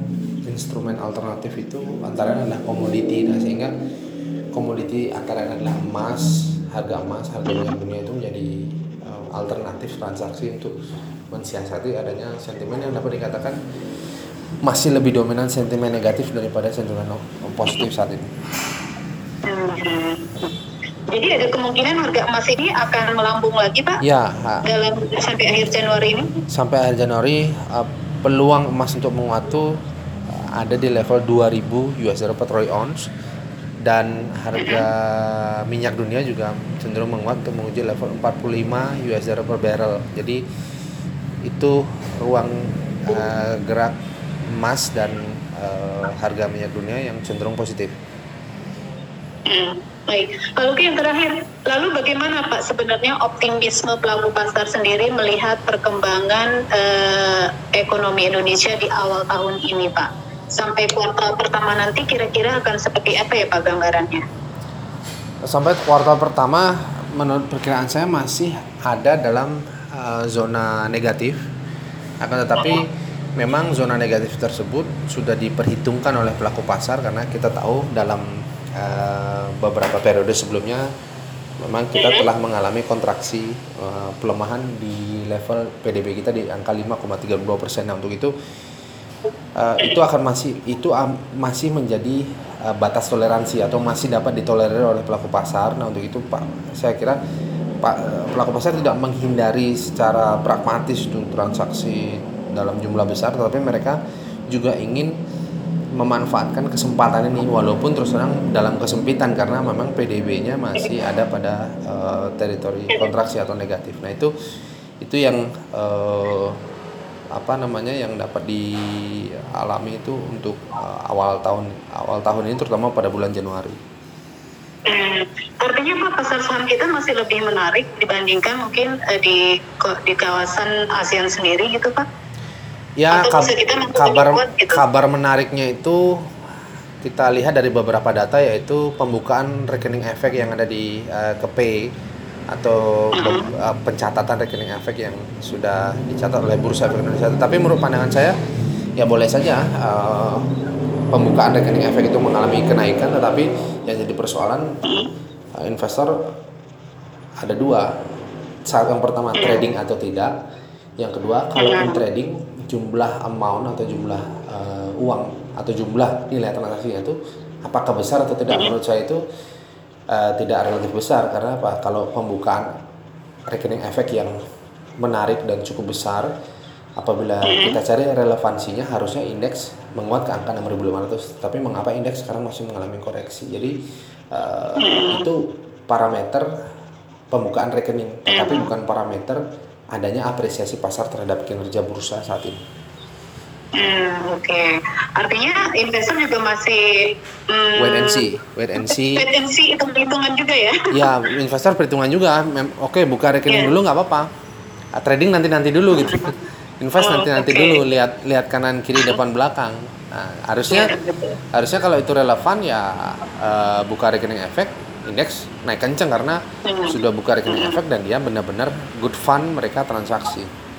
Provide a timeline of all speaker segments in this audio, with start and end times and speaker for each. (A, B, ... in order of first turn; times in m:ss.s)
0:00.4-0:03.7 A
0:04.5-0:10.7 A
0:11.3-0:13.6 A
0:14.6-0:18.3 A
0:19.5-0:20.5 B
0:21.1-0:24.0 B
0:24.0-0:24.7 A
0:24.6-0:26.4 B
0:26.5-0:29.7 A
0:30.3-0:33.0 A
0:33.8-0:40.4 A
0:34.6-0:34.9 B
0:41.5-0:43.9 A
0:44.5-0:48.0 A
0:49.5-1:04.2 B
1:05.5-1:11.4 A
1:12.2-1:12.9 A
1:13.4-1:18.3 A
1:18.8-1:20.8 A
1:21.6-1:28.3 A
1:22.0-1:22.3 B
1:29.6-1:37.2 A
1:37.8-1:44.0 A
1:44.5-1:45.1 A
1:46.0-1:54.3 A
1:55.0-1:56.6 A
1:57.4-2:03.8 A
2:04.9-2:12.1 B
2:13.0-2:16.0 A
2:13.1-2:14.8 B
2:17.0-2:21.9 A
2:22.5-2:28.4 A
2:23.2-2:23.5 B
2:29.0-2:30.5 A
2:31.1-2:34.7 A
2:34.8-2:35.1 B
2:35.6-2:36.1 A
2:37.4-2:37.9 A
2:38.7-2:40.3 A
2:39.4-2:39.6 B
2:41.0-2:49.2 A
2:41.6-2:42.0 B
2:50.1-2:52.7 A
2:53.5-2:54.3 A
2:55.0-2:56.3 A
2:57.0-3:03.7 A
2:57.5-2:57.8 B
3:04.3-3:06.5 A
3:04.8-3:05.2 B
3:07.3-3:09.4 A
3:08.3-3:08.7 B
3:09.9-3:12.6 A
3:13.8-3:18.2 B
3:17.8-3:19.2 A
3:18.8-3:20.9 B
3:20.9-3:24.3 A
3:23.5-3:23.7 B
3:25.0-3:30.9 A
3:26.0-3:26.3 B
3:27.0-3:27.8 B
3:30.7-3:31.4 B
3:31.5-3:40.5 A
3:36.6-3:37.0 B
3:37.5-3:37.8 B